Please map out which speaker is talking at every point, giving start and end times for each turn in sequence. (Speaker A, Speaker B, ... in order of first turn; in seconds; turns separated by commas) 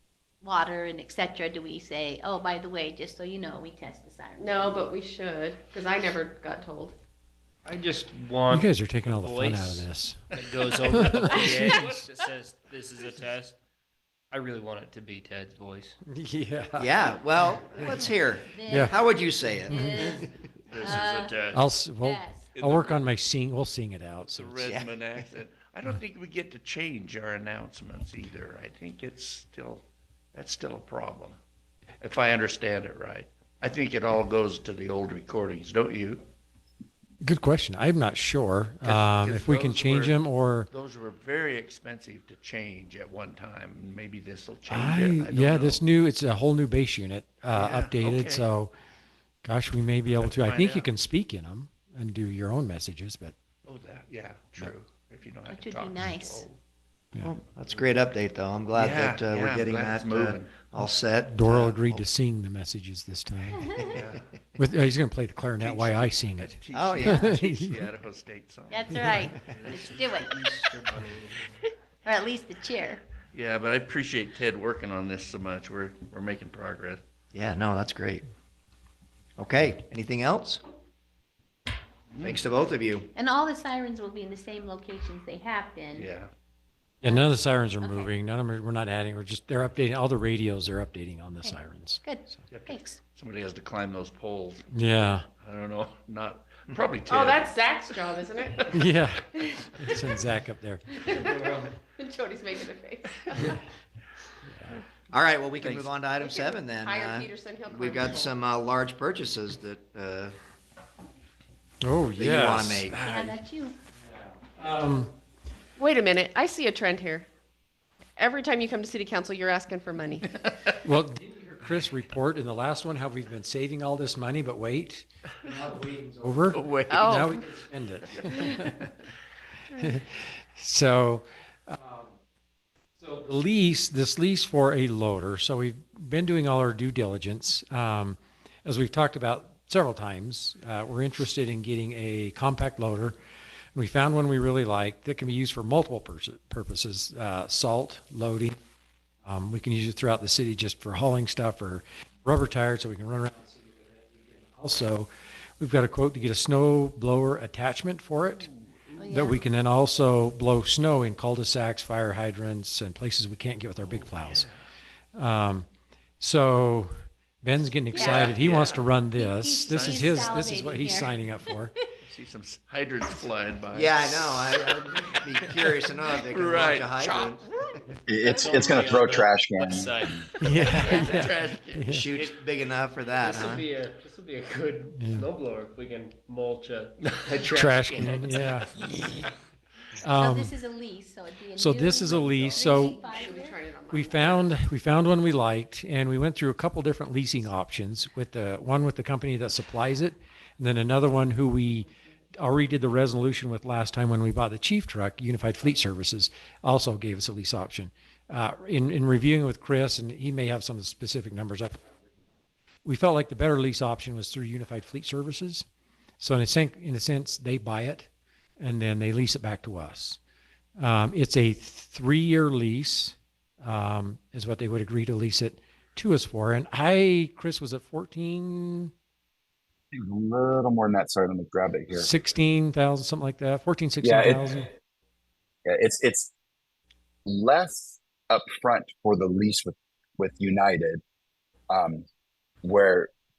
Speaker A: 0.4-4.9, Speaker B: 4.4-7.0, Speaker C: 7.7-13.6, Speaker D: 8.5-11.8, Speaker E: 11.3-12.1, Speaker C: 14.3-15.9, Speaker D: 16.1-16.9, Speaker F: 16.8-20.3, Speaker A: 18.5-21.4, Speaker D: 18.7-18.9, Speaker D: 19.7-20.0, Speaker E: 20.7-21.5, Speaker C: 20.8-21.6, Speaker D: 21.5-24.7, Speaker A: 22.0-22.5, Speaker E: 22.5-23.0, Speaker E: 24.2-31.4, Speaker F: 24.6-25.0, Speaker E: 32.0-36.2, Speaker D: 37.2-40.7, Speaker E: 38.8-40.2, Speaker E: 40.7-45.8, Speaker D: 44.7-48.7, Speaker E: 47.5-48.5, Speaker D: 49.4-53.3, Speaker E: 50.1-50.9, Speaker E: 53.7-56.6, Speaker A: 55.5-56.5, Speaker F: 57.2-62.1, Speaker E: 58.7-60.7, Speaker D: 60.8-63.8, Speaker A: 63.6-63.9, Speaker E: 63.9-64.2, Speaker D: 64.6-67.9, Speaker E: 65.6-70.1, Speaker F: 66.7-67.2, Speaker A: 68.7-70.4, Speaker C: 69.5-71.5, Speaker A: 71.6-73.0, Speaker E: 73.3-77.0, Speaker F: 77.3-78.2, Speaker F: 79.4-80.6, Speaker E: 82.1-82.4, Speaker F: 82.2-83.1, Speaker A: 83.2-86.1, Speaker E: 85.9-86.3, Speaker D: 87.0-92.4, Speaker A: 87.0-88.1, Speaker A: 92.0-93.0, Speaker E: 92.5-94.7, Speaker D: 94.7-95.3, Speaker E: 95.4-97.5, Speaker B: 97.1-98.7, Speaker D: 98.7-100.9, Speaker B: 101.0-103.6, Speaker C: 101.2-101.6, Speaker F: 105.1-110.3, Speaker E: 105.6-105.9, Speaker B: 106.2-108.3, Speaker D: 111.8-112.9, Speaker F: 112.2-113.0, Speaker E: 112.9-113.4, Speaker A: 112.9-113.8, Speaker D: 114.0-115.1, Speaker B: 115.8-117.3, Speaker B: 118.2-120.3, Speaker D: 120.8-128.8, Speaker E: 126.5-127.3, Speaker B: 126.9-127.4, Speaker E: 128.1-128.9, Speaker D: 129.8-132.1, Speaker D: 133.0-143.2, Speaker D: 143.8-148.6, Speaker D: 149.2-158.5, Speaker E: 158.2-158.7, Speaker A: 159.0-159.4, Speaker D: 159.1-164.5, Speaker E: 164.2-164.5, Speaker D: 165.2-165.7, Speaker D: 166.2-166.9, Speaker D: 167.4-171.7, Speaker A: 167.9-168.4, Speaker E: 167.9-168.9, Speaker A: 169.2-171.5, Speaker E: 169.7-170.5, Speaker E: 172.1-177.4, Speaker F: 173.7-177.4, Speaker G: 178.1-180.1, Speaker C: 178.2-180.2, Speaker D: 180.4-182.1, Speaker E: 180.4-182.0, Speaker A: 180.7-181.2, Speaker F: 181.9-183.7, Speaker C: 182.1-182.4, Speaker C: 183.1-188.2, Speaker D: 185.0-185.3, Speaker E: 187.0-188.5, Speaker D: 187.5-188.8, Speaker D: 190.0-190.5, Speaker A: 190.0-193.6, Speaker D: 191.6-193.0, Speaker B: 192.8-194.5, Speaker D: 193.9-212.0, Speaker D: 212.8-215.7, Speaker D: 216.2-218.1, Speaker D: 218.6-220.2, Speaker D: 220.8-228.9, Speaker G: 229.9-232.1, Speaker D: 231.9-234.7, Speaker G: 234.0-234.7, Speaker G: 235.7-236.3, Speaker G: 237.3-241.0, Speaker G: 241.7-242.1, Speaker G: 242.6-243.1